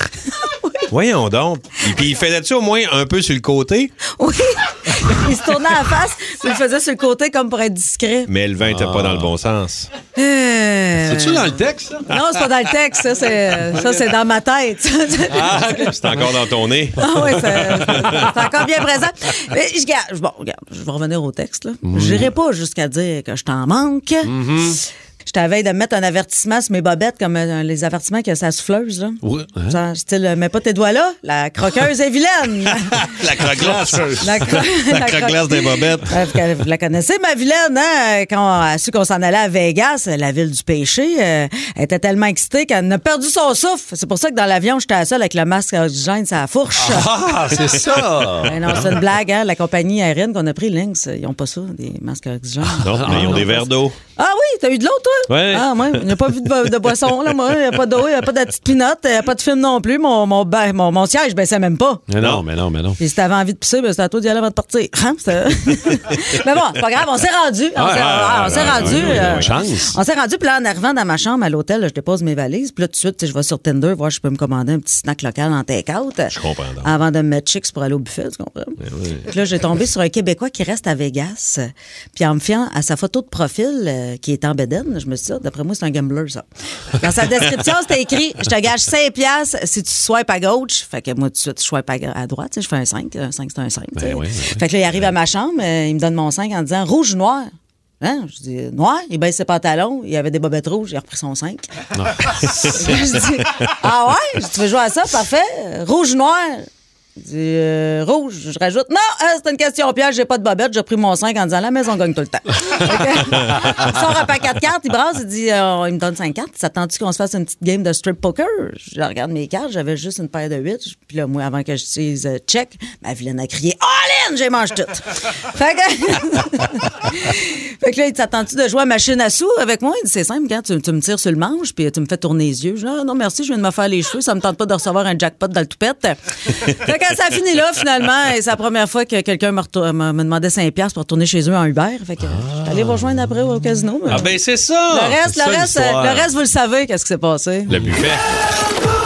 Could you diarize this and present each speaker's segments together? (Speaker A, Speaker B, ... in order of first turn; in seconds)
Speaker A: 0.3-0.8, 4.1-8.3, 10.1-15.9, 16.9-33.1, 34.2-47.1, 48.4-53.6, 54.1-62.0, 63.0-147.9
Speaker B: 0.9-3.9, 8.3-9.9, 15.7-18.4, 32.8-36.3, 52.8-54.0, 55.3-56.3, 67.9-69.5, 76.3-76.9, 144.1-145.2, 147.7-148.2
Speaker C: 8.6-9.3, 11.0-12.3, 15.3-16.3, 21.9-22.3, 24.3-24.8, 29.2-29.7, 46.8-48.7, 52.7-53.6, 62.1-63.0, 67.8-70.0, 94.0-94.6, 101.9-102.8, 142.3-143.0, 145.2-146.3, 147.8-148.1